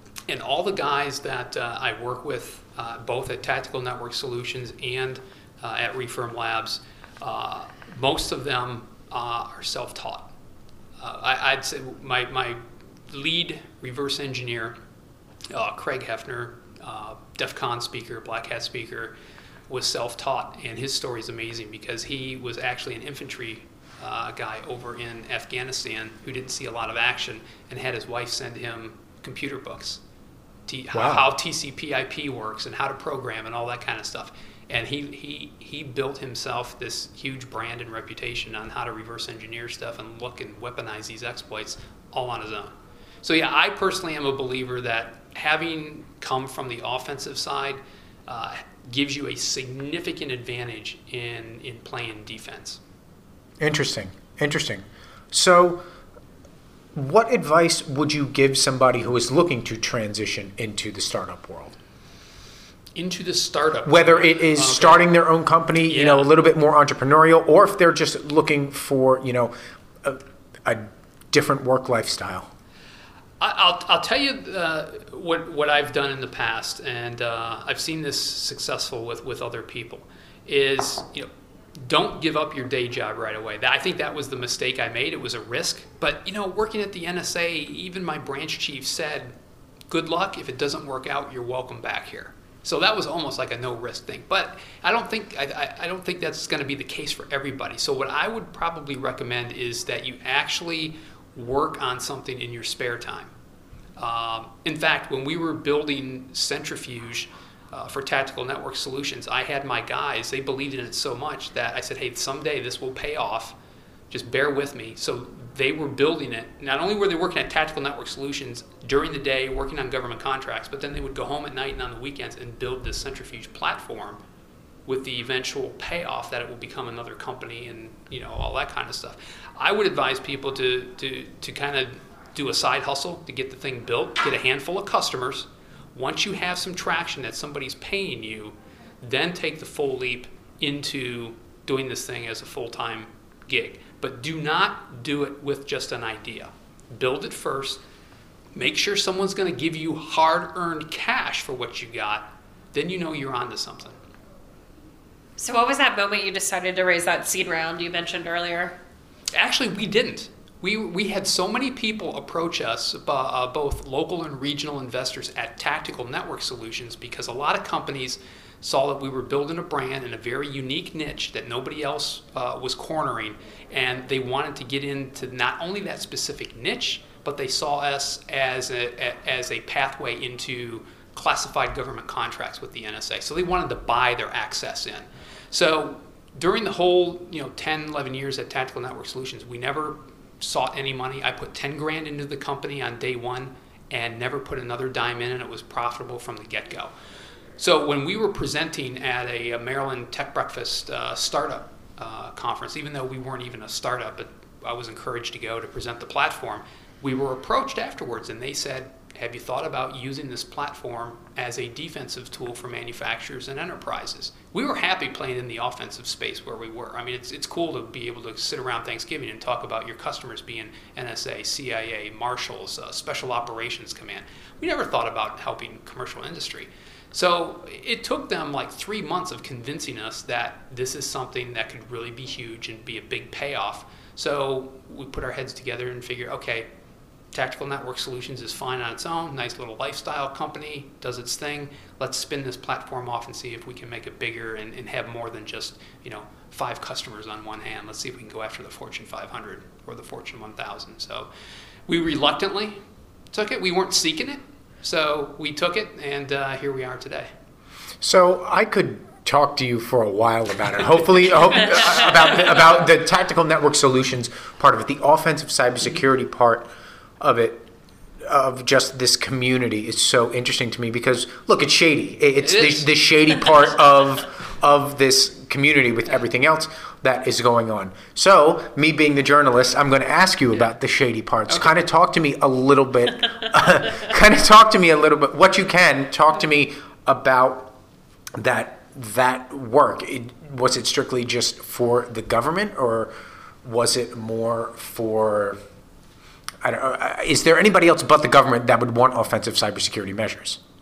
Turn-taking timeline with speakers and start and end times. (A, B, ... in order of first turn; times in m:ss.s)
0:00.3-0:10.3 A
0:11.0-0:14.8 A
0:15.5-0:19.2 A
0:19.7-0:30.0 A
0:30.7-0:52.8 A
0:30.9-0:31.3 B
0:53.6-0:55.8 B
0:57.0-1:01.7 B
1:03.0-1:05.1 A
1:03.9-1:12.5 B
1:05.9-1:06.3 A
1:13.4-1:29.3 A
1:29.9-1:43.3 A
1:44.0-1:53.6 A
1:54.1-2:04.2 A
2:04.9-2:27.8 A
2:28.5-2:34.0 A
2:35.4-2:38.8 C
2:39.3-3:16.9 A
3:17.6-3:56.7 A
3:57.3-4:11.3 A
4:11.9-4:12.8 A
4:13.3-4:17.3 A
4:18.0-4:26.7 B
4:21.6-4:22.6 A
4:27.2-4:27.7 B
4:28.3-4:47.8 B
4:32.4-4:32.9 A
4:41.5-4:41.8 A
4:48.4-4:53.1 B
4:53.6-4:55.6 B
4:56.6-5:00.6 B